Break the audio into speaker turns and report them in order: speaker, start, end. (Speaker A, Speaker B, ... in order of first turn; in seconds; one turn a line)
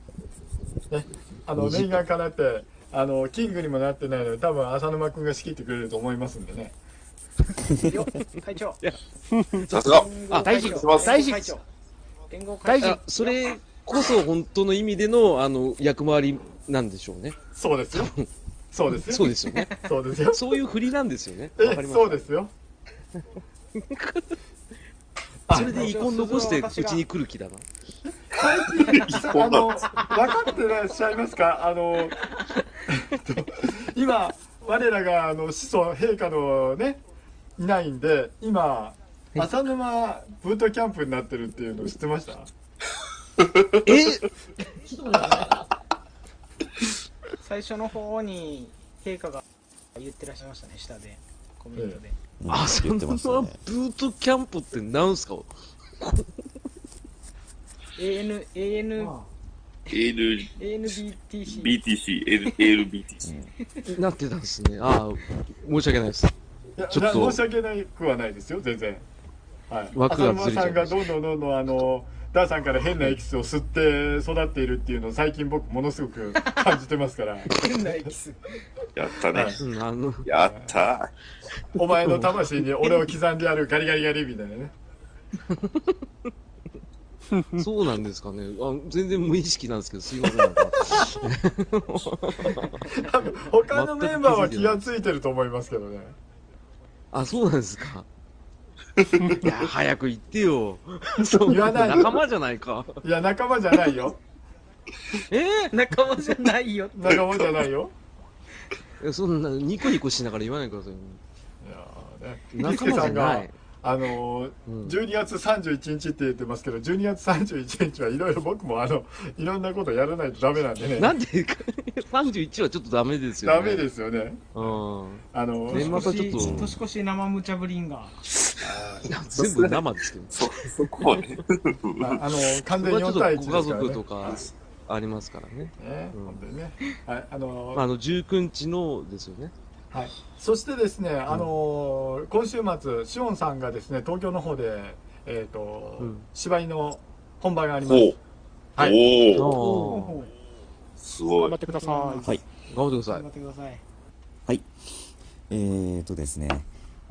Speaker A: 0.9-6.7
Speaker B: 7.7-8.8
Speaker C: 9.5-9.8
Speaker D: 9.7-10.1
Speaker B: 9.7-11.6
Speaker E: 10.4-11.5
Speaker D: 10.6-11.2
Speaker B: 12.3-13.6
Speaker E: 12.7-13.0
Speaker C: 12.8-17.4
Speaker A: 17.6-18.1
Speaker C: 17.9-18.3
Speaker A: 18.7-20.6
Speaker C: 18.9-19.8
Speaker C: 20.3-22.3
Speaker A: 21.6-22.5
Speaker C: 23.8-24.4
Speaker A: 25.5-25.9
Speaker C: 25.5-27.7
Speaker B: 25.5-27.1
Speaker A: 28.3-32.3
Speaker D: 28.4-29.9
Speaker A: 32.9-37.0
Speaker A: 37.6-42.5
Speaker C: 43.9-44.3
Speaker C: 44.9-45.6
Speaker B: 47.4-49.4
Speaker B: 50.0-52.2
Speaker F: 52.4-53.6
Speaker C: 52.5-55.5
Speaker C: 56.0-56.3
Speaker B: 58.0-59.2
Speaker D: 59.9-60.6
Speaker B: 60.6-61.8
Speaker D: 61.5-63.3
Speaker F: 63.2-63.5
Speaker C: 63.9-66.3
Speaker A: 66.8-69.0
Speaker C: 66.9-67.4
Speaker A: 69.7-77.7
Speaker C: 69.9-71.1
Speaker B: 76.4-76.8
Speaker B: 77.5-78.6
Speaker D: 79.0-79.6
Speaker A: 79.3-79.6
Speaker C: 79.6-80.3
Speaker D: 80.2-81.1
Speaker A: 80.3-80.8
Speaker A: 81.8-84.7
Speaker C: 82.0-82.5
Speaker C: 85.5-85.8
Speaker C: 87.6-92.8
Speaker A: 92.5-96.2
Speaker C: 93.7-94.9
Speaker C: 97.1-98.1
Speaker D: 99.0-99.5
Speaker C: 99.3-103.0
Speaker A: 101.4-102.2
Speaker A: 103.0-104.2
Speaker C: 105.3-105.8
Speaker B: 105.7-107.2
Speaker A: 107.0-107.9
Speaker C: 109.0-111.2
Speaker A: 111.6-121.2
Speaker C: 112.5-113.5
Speaker C: 114.7-115.0
Speaker C: 121.0-123.9
Speaker A: 123.4-124.8
Speaker C: 124.5-126.8
Speaker A: 125.3-126.2
Speaker B: 125.7-128.2
Speaker F: 126.4-126.7
Speaker A: 128.6-129.1
Speaker C: 129.1-130.5
Speaker D: 129.3-132.2
Speaker A: 132.0-134.4
Speaker C: 132.7-136.4
Speaker A: 135.8-137.8
Speaker C: 137.7-139.5
Speaker A: 139.9-148.2
Speaker C: 146.0-146.3
Speaker D: 147.8-148.2
Speaker A: 148.8-150.0
Speaker D: 148.8-149.6
Speaker C: 149.3-150.2
Speaker B: 149.6-150.3
Speaker D: 151.0-151.6
Speaker E: 151.4-152.4
Speaker B: 151.7-152.4
Speaker C: 152.7-153.2
Speaker B: 153.1-153.8
Speaker F: 154.5-156.7